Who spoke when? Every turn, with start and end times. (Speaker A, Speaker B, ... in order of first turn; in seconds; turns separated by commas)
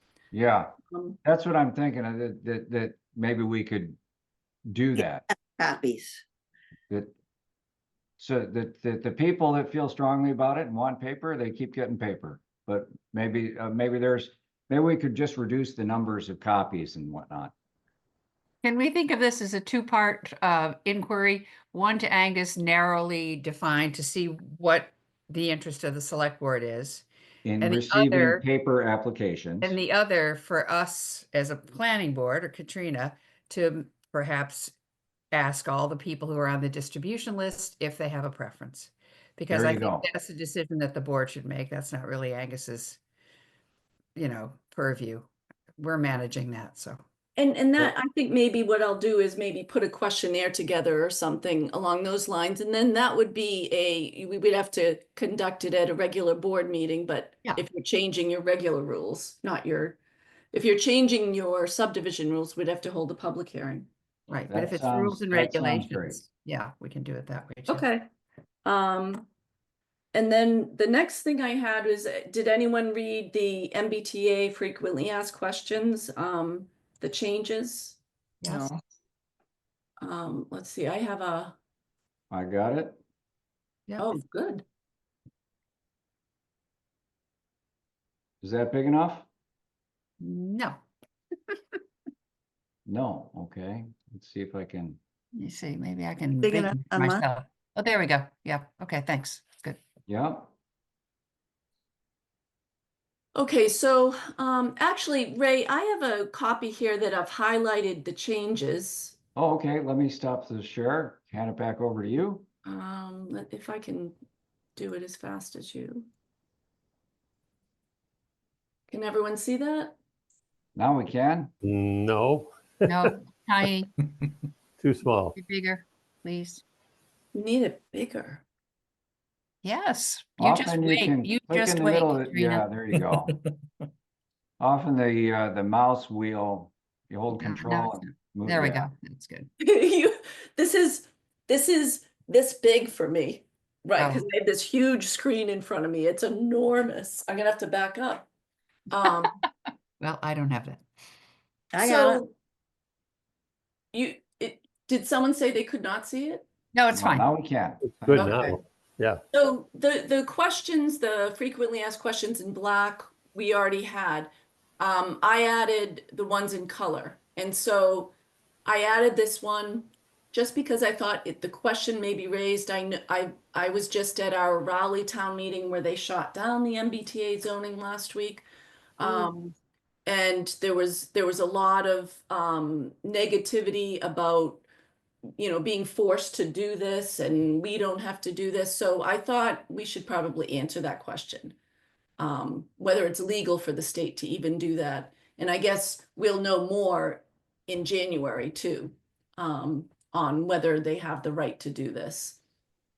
Speaker A: 0.3-0.7, Speaker B: 0.9-1.2, Speaker A: 1.2-4.0, Speaker A: 4.7-5.2, Speaker C: 5.6-6.2, Speaker A: 8.2-17.5, Speaker D: 18.6-27.1, Speaker A: 27.4-29.8, Speaker D: 27.6-28.4, Speaker D: 29.6-34.7, Speaker D: 35.3-43.0, Speaker A: 39.5-40.1, Speaker D: 44.1-47.0, Speaker B: 47.4-60.0, Speaker B: 60.5-63.9, Speaker D: 64.3-67.9, Speaker A: 64.5-66.2, Speaker B: 67.7-68.0, Speaker B: 68.6-69.3, Speaker B: 70.1-78.8, Speaker D: 78.4-78.7, Speaker B: 80.0-81.6, Speaker A: 82.3-83.0, Speaker D: 83.9-84.2, Speaker B: 84.0-84.6, Speaker A: 88.4-89.3, Speaker D: 90.2-90.8, Speaker A: 92.8-95.0, Speaker D: 95.3-99.8, Speaker C: 96.4-97.2, Speaker A: 100.1-100.5, Speaker B: 103.3-109.2, Speaker A: 109.3-112.5, Speaker B: 112.6-114.2, Speaker B: 114.8-116.1, Speaker B: 118.9-120.0, Speaker A: 120.8-121.5, Speaker E: 121.6-123.1, Speaker D: 122.8-123.9, Speaker E: 124.8-125.3, Speaker D: 125.3-126.6, Speaker B: 127.3-128.4, Speaker D: 129.6-132.7, Speaker A: 130.4-133.3, Speaker A: 134.6-138.8, Speaker D: 137.3-139.5, Speaker B: 139.6-148.3, Speaker D: 144.0-144.2, Speaker B: 148.9-149.3, Speaker D: 150.0-150.8, Speaker C: 151.7-152.2, Speaker B: 151.8-152.3, Speaker B: 153.9-156.5, Speaker D: 156.7-157.2, Speaker A: 156.9-158.4, Speaker E: 157.9-159.2, Speaker B: 158.2-158.5, Speaker B: 159.3-168.1, Speaker B: 168.6-178.4, Speaker B: 179.0-179.5, Speaker B: 180.1-184.6, Speaker B: 185.4-191.6, Speaker B: 192.2-202.4